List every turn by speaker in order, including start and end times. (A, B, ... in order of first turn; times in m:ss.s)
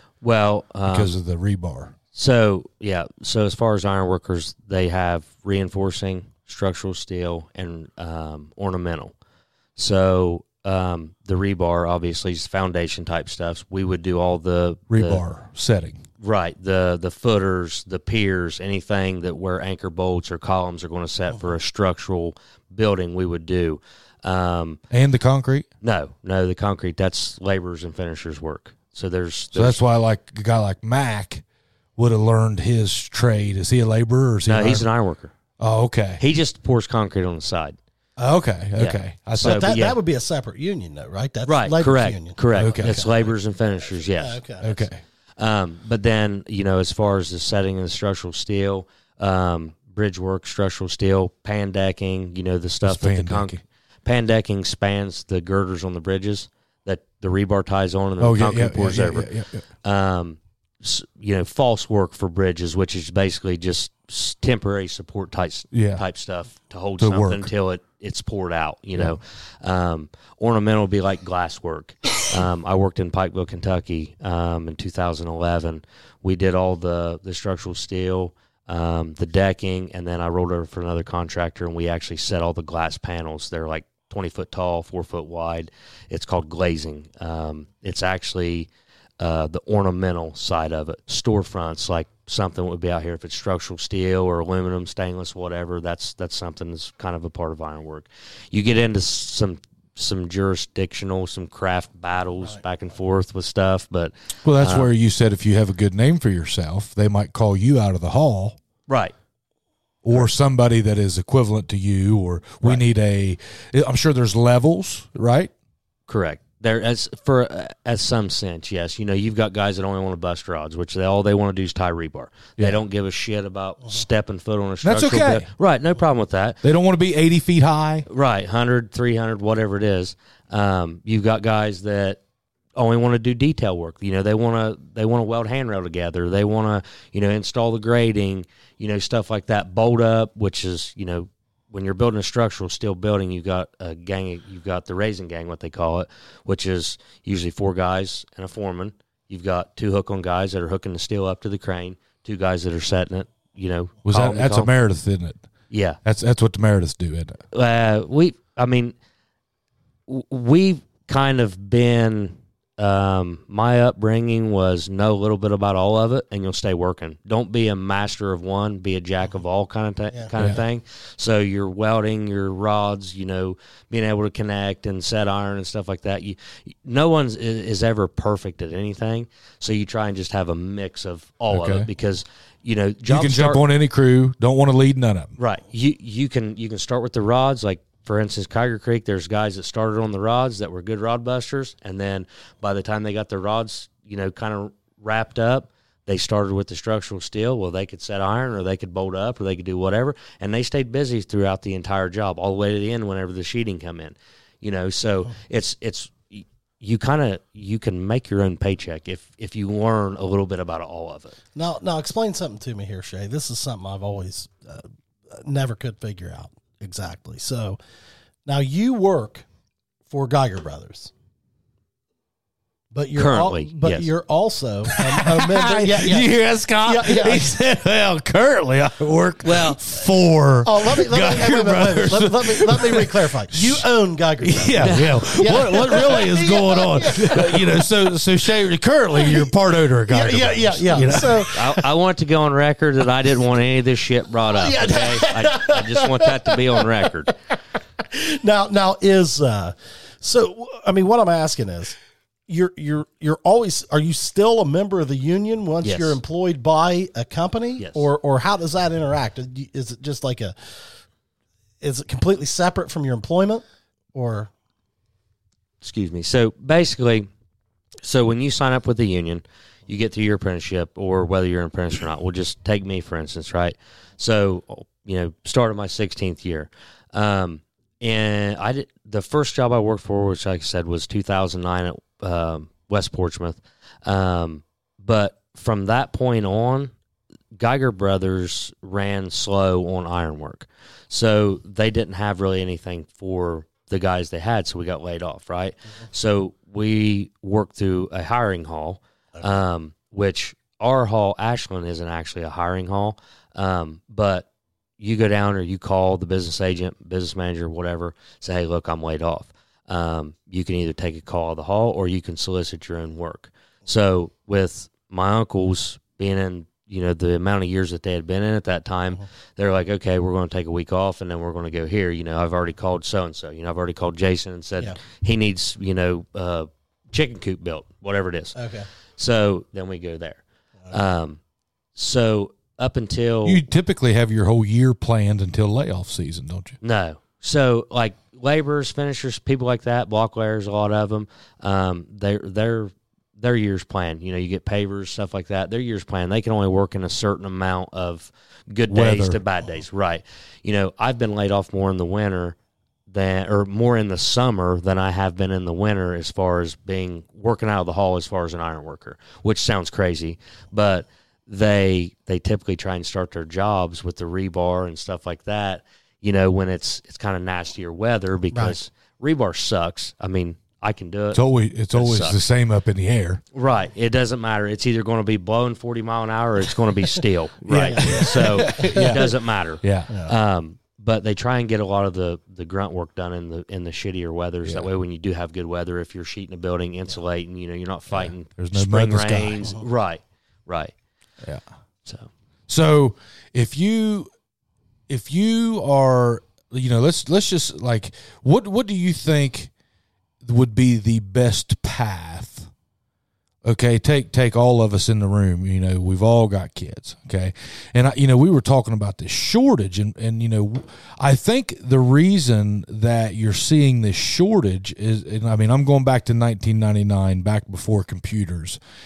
0:00.2-0:01.1 A
0:00.9-0:02.0 B
0:02.1-0:09.2 A
0:09.8-0:15.2 A
0:14.9-0:16.0 B
0:16.2-0:24.8 A
0:24.9-0:25.7 B
0:25.8-0:29.8 A
0:29.5-0:31.4 B
0:32.0-0:34.9 B
0:34.5-0:35.3 A
0:35.6-0:36.2 B
0:36.2-0:37.8 A
0:38.2-0:39.8 B
0:38.8-0:40.0 A
0:39.4-0:43.3 C
0:41.5-0:44.8 A
0:42.6-0:43.0 B
0:44.0-0:44.7 C
0:44.6-0:45.0 B
0:45.4-0:59.3 A
0:52.8-0:53.6 B
0:58.2-0:59.6 B
0:59.8-1:28.7 A
1:05.7-1:06.0 B
1:07.0-1:07.5 B
1:29.2-1:44.9 A
1:44.4-1:48.6 B
1:48.9-1:49.1 A
1:50.0-1:55.5 B
1:56.1-2:06.6 A
2:04.8-2:05.5 B
2:06.6-2:08.1 B
2:08.1-2:12.2 A
2:12.8-2:34.7 A
2:34.1-2:35.4 B
2:35.7-2:36.0 A
2:36.0-2:37.4 B
2:37.5-2:39.0 A
2:40.1-3:03.6 A
3:01.5-3:01.9 B
3:03.1-3:05.3 B
3:05.4-3:31.4 A
3:31.6-3:37.8 C
3:38.5-3:39.4 C
3:40.1-3:41.1 C
3:42.9-3:46.3 C
3:43.2-3:44.1 A
3:44.9-3:53.8 B
3:46.8-3:47.6 C
3:49.4-3:49.8 A
3:50.6-3:57.9 C
3:54.4-4:01.8 B
3:59.1-3:59.5 C
4:00.1-4:01.8 C
4:01.5-4:07.4 A
4:04.5-4:06.9 C
4:08.0-4:20.9 C
4:15.8-4:16.2 A
4:17.8-4:18.1 A
4:21.8-4:24.5 C
4:25.8-4:27.3 A
4:28.0-4:46.9 A
4:47.6-5:04.5 A
5:05.0-5:28.6 A
5:28.6-5:28.9 C
5:29.2-5:31.4 A
5:32.0-5:33.6 A
5:33.4-5:36.8 B
5:36.8-5:52.6 A
5:48.9-5:49.4 B
5:53.1-6:11.4 A
6:11.3-6:13.4 B
6:11.9-6:12.4 A
6:13.5-6:30.9 A
6:17.7-6:20.1 B
6:17.8-6:19.3 C
6:24.6-6:24.9 B
6:28.2-6:29.7 B
6:32.7-6:34.3 B
6:35.1-6:39.7 B
6:40.4-6:42.7 B
6:43.6-6:58.8 B